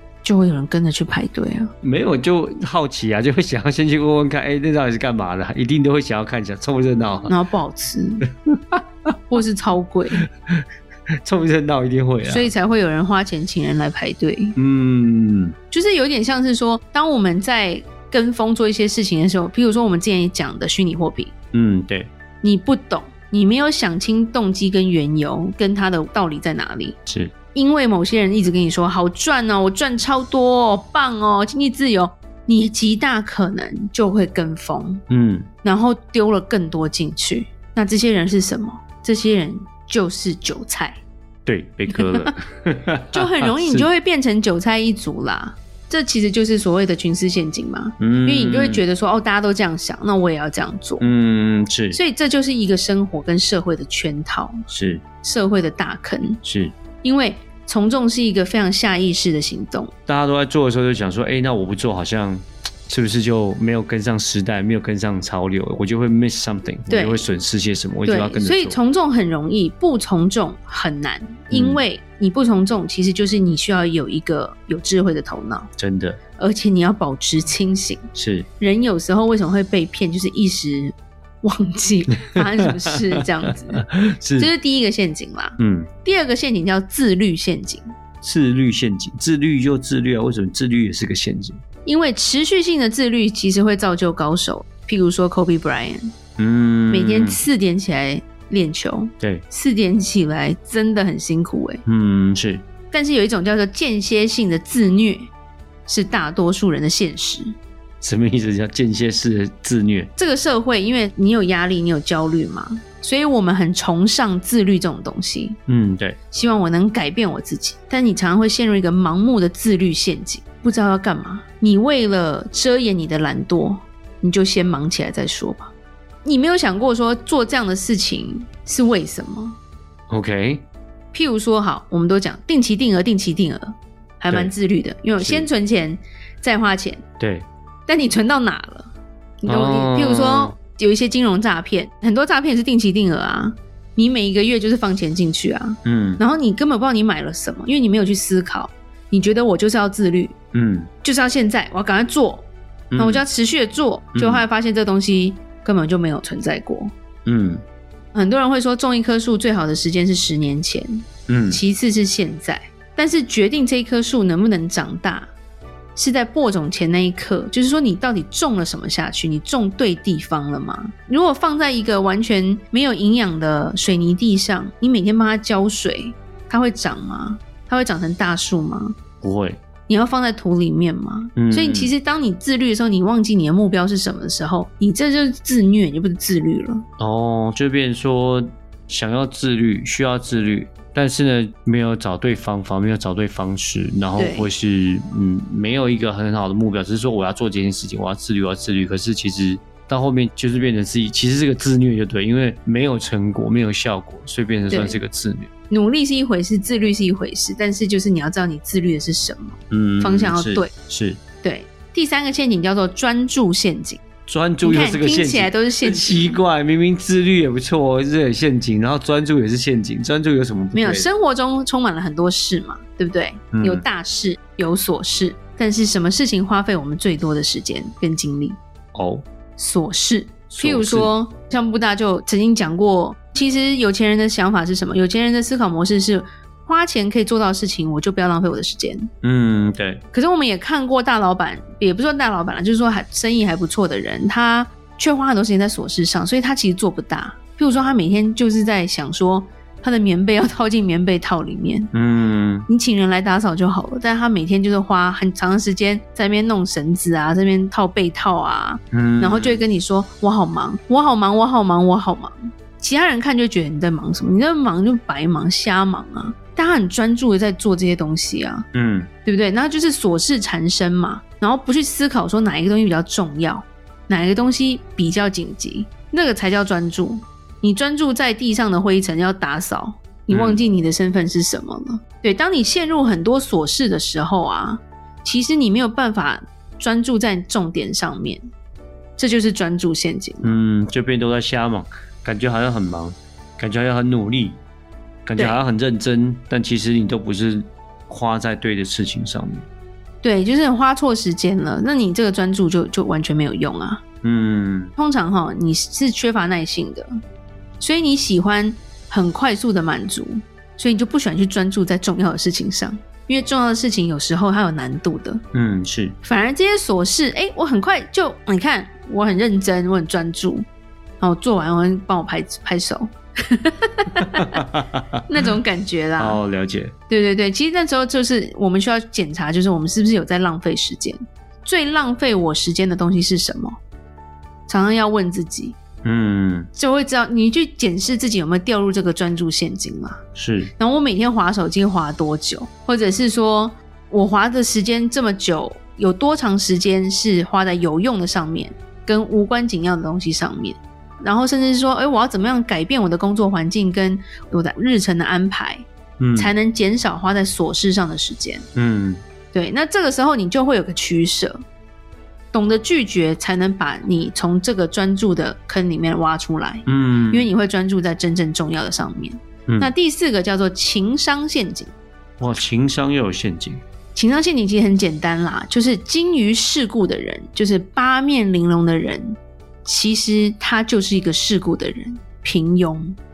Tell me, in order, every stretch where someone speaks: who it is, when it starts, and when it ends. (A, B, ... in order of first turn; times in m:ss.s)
0:00.2-0:01.7 A
0:01.8-0:07.3 B
0:07.3-0:08.2 A
0:08.5-0:08.8 B
0:09.3-0:10.2 A
0:11.2-0:12.5 B
0:12.2-0:14.5 A
0:14.6-0:15.5 B
0:15.7-0:21.3 A
0:21.5-0:22.1 B
0:22.4-0:27.0 A
0:27.1-0:27.3 B
0:27.5-0:35.0 A
0:35.1-0:35.5 B
0:35.6-0:41.0 A
0:41.4-0:43.9 B
0:41.9-0:42.3 A
0:43.1-0:51.0 A
0:48.0-0:48.8 B
0:51.0-0:52.0 B
0:51.9-0:54.6 A
0:54.7-0:55.0 B
0:55.2-0:56.4 A
0:56.4-0:56.7 B
0:57.0-0:59.9 A
1:00.1-1:08.8 B
1:06.9-1:07.3 A
1:08.0-1:15.7 A
1:11.5-1:11.8 B
1:15.8-1:16.2 B
1:16.4-1:18.1 A
1:18.1-1:18.5 B
1:18.6-1:23.8 A
1:22.3-1:24.5 B
1:24.4-1:27.9 A
1:25.6-1:25.9 B
1:28.2-1:31.6 B
1:31.8-1:36.1 A
1:36.4-1:37.4 B
1:36.9-1:41.8 A
1:41.8-1:42.6 B
1:42.9-1:45.3 A
1:45.9-1:47.6 A
1:48.0-1:50.1 B
1:50.2-1:55.6 A
1:55.7-1:56.2 B
1:56.3-2:05.7 A
2:06.2-2:09.6 A
2:10.1-2:10.6 B
2:11.1-2:17.0 A
2:15.2-2:15.5 B
2:17.2-2:17.5 B
2:17.9-2:18.9 A
2:19.4-2:30.3 A
2:19.4-2:20.6 B
2:25.8-2:26.2 B
2:30.5-2:30.9 B
2:31.0-2:36.9 A
2:32.9-2:33.2 B
2:34.1-2:34.4 B
2:37.2-2:37.6 B
2:38.1-2:45.3 A
2:41.3-2:41.6 B
2:46.0-2:59.0 A
2:59.2-2:59.6 B
2:59.9-3:06.8 A
3:01.4-3:01.9 B
3:07.0-3:25.5 B
3:14.1-3:14.5 A
3:24.7-3:25.0 A
3:25.7-3:30.7 A
3:29.7-3:31.2 B
3:31.4-3:34.0 A
3:34.3-3:41.1 B
3:34.6-3:36.4 A
3:40.7-3:48.6 A
3:43.5-3:43.8 B
3:48.9-3:49.2 B
3:49.6-3:59.1 A
3:50.5-3:51.1 B
3:59.2-4:00.0 B
4:00.1-4:11.9 A
4:11.9-4:12.7 B
4:12.7-4:28.6 A
4:18.9-4:19.6 B
4:28.7-4:29.1 B
4:29.2-4:48.4 A
4:40.3-4:40.6 B
4:49.2-4:50.6 A
4:50.4-4:54.6 B
4:55.2-4:59.7 B
5:00.2-5:04.0 A
5:04.2-5:04.9 B
5:05.0-5:07.1 A
5:07.8-5:15.4 A
5:15.5-5:16.1 B
5:16.2-5:20.6 A
5:21.2-5:24.6 A
5:24.4-5:25.0 B
5:25.3-5:26.4 A
5:26.2-5:26.9 B
5:27.1-5:33.8 A
5:34.7-5:35.8 A
5:36.0-5:36.7 B
5:36.7-5:40.2 A
5:40.4-5:40.7 B
5:40.8-5:58.6 A
5:56.2-5:56.5 B
5:58.7-5:59.2 B
5:59.5-6:01.6 A
6:02.5-6:11.9 A
6:06.8-6:07.5 B
6:12.4-6:13.8 B
6:14.1-6:23.2 A